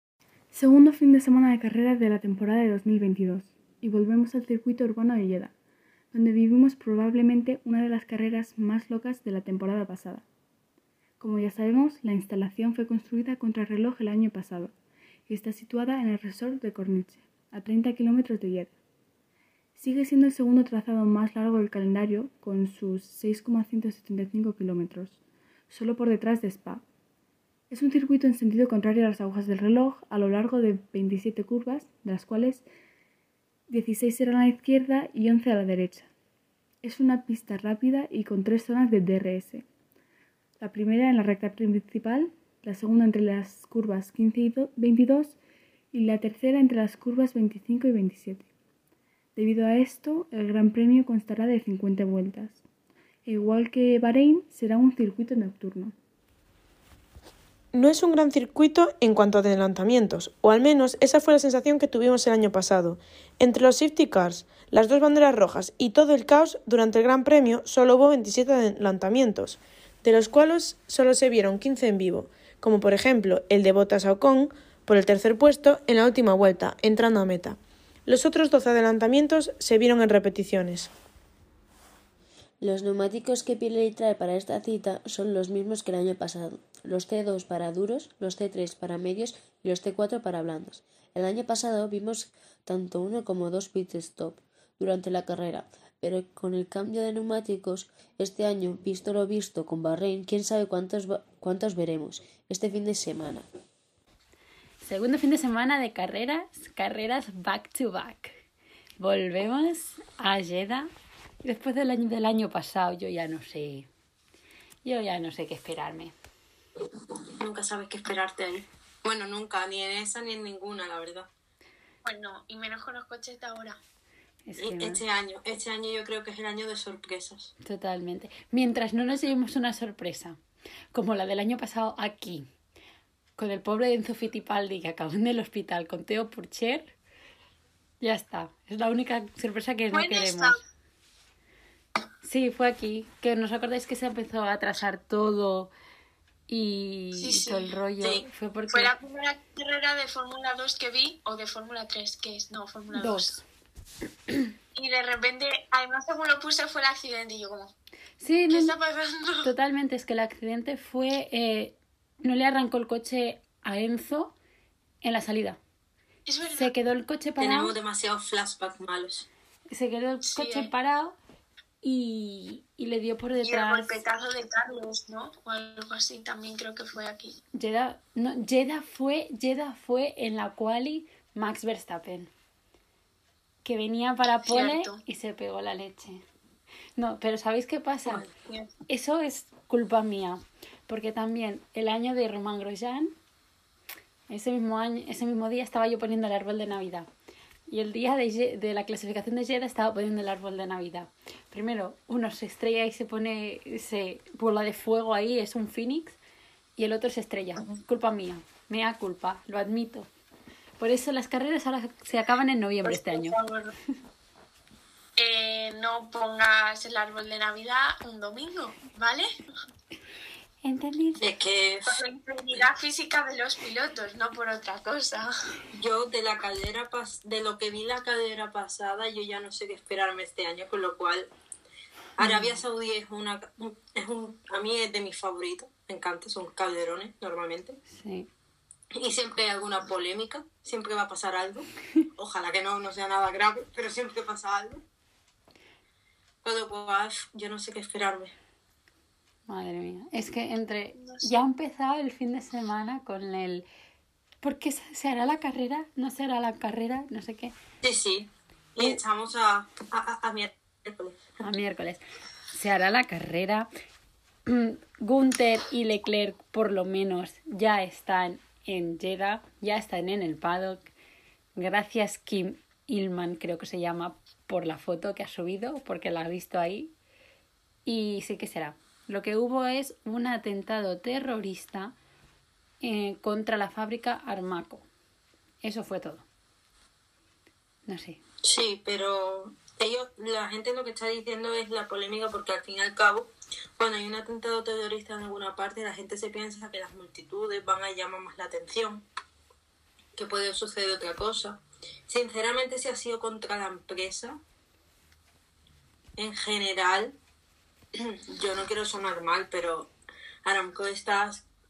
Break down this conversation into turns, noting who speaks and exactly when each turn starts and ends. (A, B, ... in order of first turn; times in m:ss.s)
0:00.5-0:05.5 A
0:06.1-0:10.2 A
0:11.2-0:14.7 A
0:15.3-0:18.7 A
0:19.8-0:25.2 A
0:25.7-0:26.8 A
0:27.7-0:32.6 A
0:33.7-0:36.1 A
0:36.8-0:39.6 A
0:40.6-0:45.4 A
0:45.9-0:48.5 A
0:49.4-0:52.6 A
0:53.2-0:55.9 A
0:57.7-1:20.9 B
1:22.6-1:43.5 C
1:44.8-1:48.4 D
1:49.0-1:50.9 D
1:51.4-1:53.9 D
1:54.8-1:56.1 D
1:57.3-2:01.3 E
2:02.0-2:03.8 F
2:04.5-2:05.0 D
2:04.6-2:07.5 E
2:07.6-2:10.4 D
2:10.9-2:12.5 D
2:13.4-2:16.9 D
2:18.0-2:20.6 D
2:19.9-2:20.6 F
2:22.2-2:25.7 D
2:26.5-2:28.9 D
2:27.2-2:27.8 F
2:28.7-2:33.3 F
2:32.9-2:33.4 D
2:34.8-2:37.7 F
2:38.2-2:38.8 D
2:38.5-2:39.5 F
2:39.4-2:44.3 D
2:45.0-2:45.6 D
2:46.3-2:46.7 F
2:46.5-2:47.8 D
2:47.4-2:49.3 E
2:49.7-2:51.2 D
2:50.3-2:50.7 F
2:51.8-2:54.0 D
2:53.4-2:57.4 F
2:57.5-3:02.3 D
3:03.6-3:06.2 D
3:04.4-3:05.0 F
3:07.0-3:08.3 D
3:08.4-3:08.7 F
3:08.9-3:13.1 D
3:14.3-3:17.1 D
3:17.7-3:26.2 D
3:26.8-3:30.1 D
3:30.8-3:33.4 D
3:32.8-3:33.7 F
3:35.2-3:39.3 F
3:40.6-3:41.3 D
3:41.2-3:42.0 E
3:41.9-3:45.3 F
3:45.7-3:51.3 E
3:52.2-3:57.8 E
3:52.2-3:52.6 D
3:57.9-3:58.3 D
3:59.0-4:04.8 E
4:06.4-4:08.3 E
4:09.5-4:13.7 D
4:11.0-4:11.4 F
4:14.4-4:17.5 D
4:17.8-4:21.2 E
4:21.4-4:23.7 D
4:24.5-4:30.9 D
4:31.6-4:36.9 D
4:37.9-4:41.9 D
4:42.8-4:44.8 D
4:45.6-4:46.2 D
4:47.9-4:48.2 D
4:48.4-4:59.0 E
5:00.2-5:04.4 E
5:06.2-5:07.2 E
5:08.0-5:09.9 E
5:10.4-5:11.5 E